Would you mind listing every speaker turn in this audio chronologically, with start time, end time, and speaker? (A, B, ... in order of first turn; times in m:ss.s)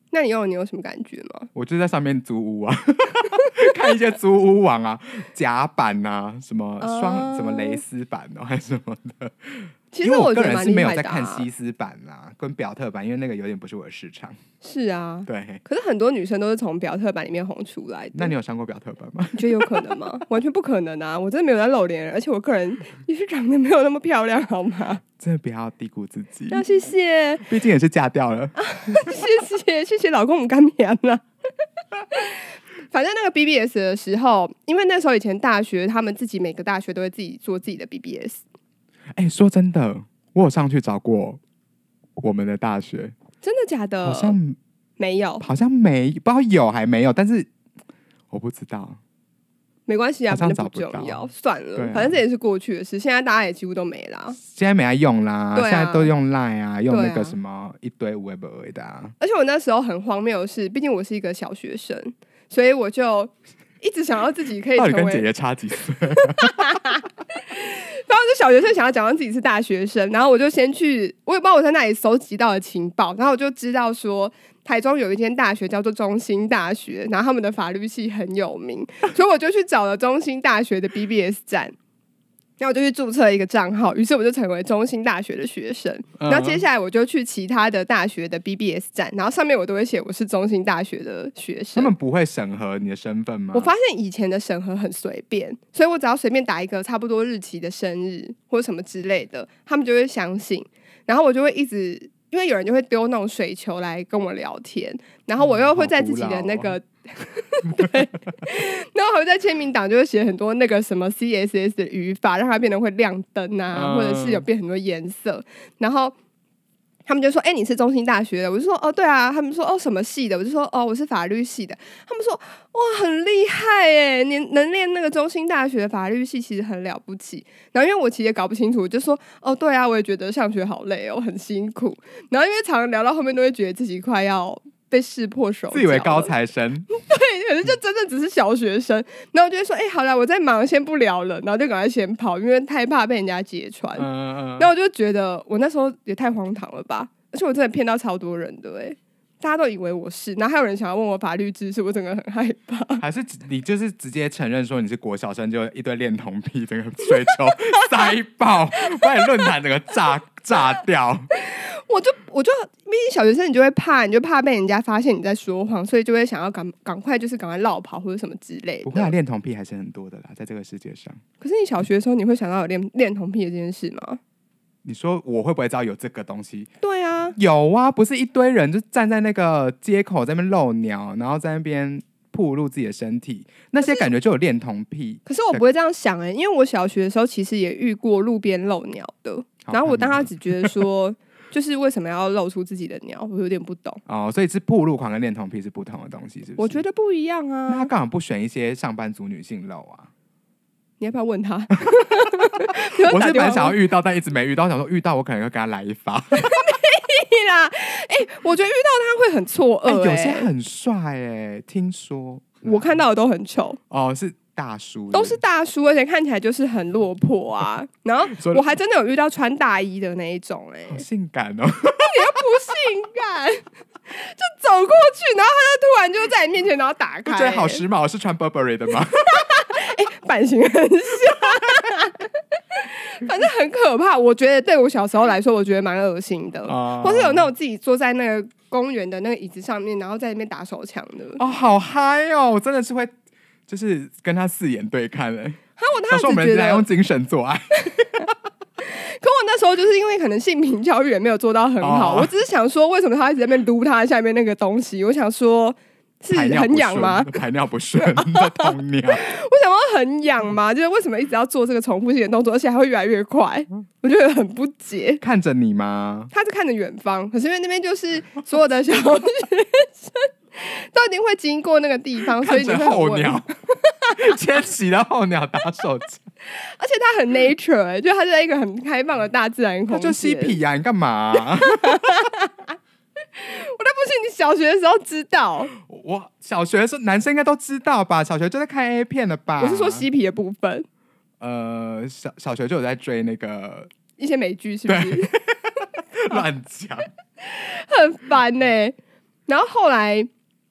0:00.1-0:01.5 A
0:01.6-0:14.4 B
0:06.8-0:07.8 A
0:09.9-0:11.5 A
0:14.6-0:18.3 A
0:15.3-0:15.6 B
0:18.1-0:19.9 B
0:19.4-0:25.0 A
0:25.2-0:26.6 B
0:26.5-0:27.5 A
0:27.4-0:29.1 B
0:28.6-0:31.2 A
0:32.1-0:38.4 A
0:39.2-0:41.4 B
0:42.2-0:43.2 B
0:43.4-0:44.4 A
0:44.0-0:44.6 B
0:45.0-0:45.4 A
0:45.4-0:47.5 B
0:48.3-0:49.0 B
0:49.9-0:54.4 A
0:50.3-0:52.2 B
0:54.4-0:59.2 B
0:55.5-0:56.1 A
0:56.9-0:57.4 A
0:59.2-1:05.3 A
1:04.8-1:06.8 B
1:06.2-1:21.8 A
1:22.6-1:31.9 A
1:26.2-1:26.6 B
1:31.8-1:33.7 B
1:33.5-1:56.1 A
1:45.4-1:46.8 B
1:53.7-1:54.4 B
1:57.1-2:16.3 A
2:15.7-2:16.9 B
2:16.9-2:33.0 A
2:24.0-2:24.7 B
2:33.0-2:41.3 B
2:39.0-2:39.2 A
2:41.3-2:49.1 A
2:48.8-2:51.2 B
2:51.4-2:54.2 A
2:54.8-2:56.7 B
2:56.8-2:57.4 A
2:57.4-3:05.6 B
3:03.8-3:04.1 A
3:05.3-3:14.0 A
3:09.6-3:10.8 B
3:14.1-3:16.8 B
3:16.6-3:17.9 A
3:17.7-3:20.1 B
3:21.0-3:23.8 A
3:23.0-3:26.6 B
3:26.4-3:30.5 A
3:29.9-3:33.0 B
3:32.6-3:33.8 A
3:33.9-3:35.4 B
3:35.1-3:41.0 A
3:38.3-3:38.6 B
3:40.9-3:42.4 B
3:42.0-3:47.8 A
3:47.3-3:49.5 B
3:49.3-4:01.4 A
3:56.7-3:57.5 B
4:01.4-4:03.1 B
4:03.7-4:08.3 B
4:05.8-4:06.9 A
4:08.8-4:17.4 A
4:11.8-4:12.3 B
4:16.3-4:19.3 B
4:18.0-4:25.2 A
4:25.2-4:26.3 B
4:26.3-4:34.2 A
4:32.4-4:33.5 B
4:34.2-4:36.2 B
4:36.5-4:40.6 A
4:39.9-4:42.3 B
4:41.6-4:42.7 A
4:43.4-4:45.7 A
4:45.7-4:50.1 B
4:49.6-4:50.9 A
4:51.4-4:53.9 B
4:54.2-4:55.4 A
4:54.9-4:57.1 B
4:57.4-4:59.0 A
4:59.5-5:00.3 A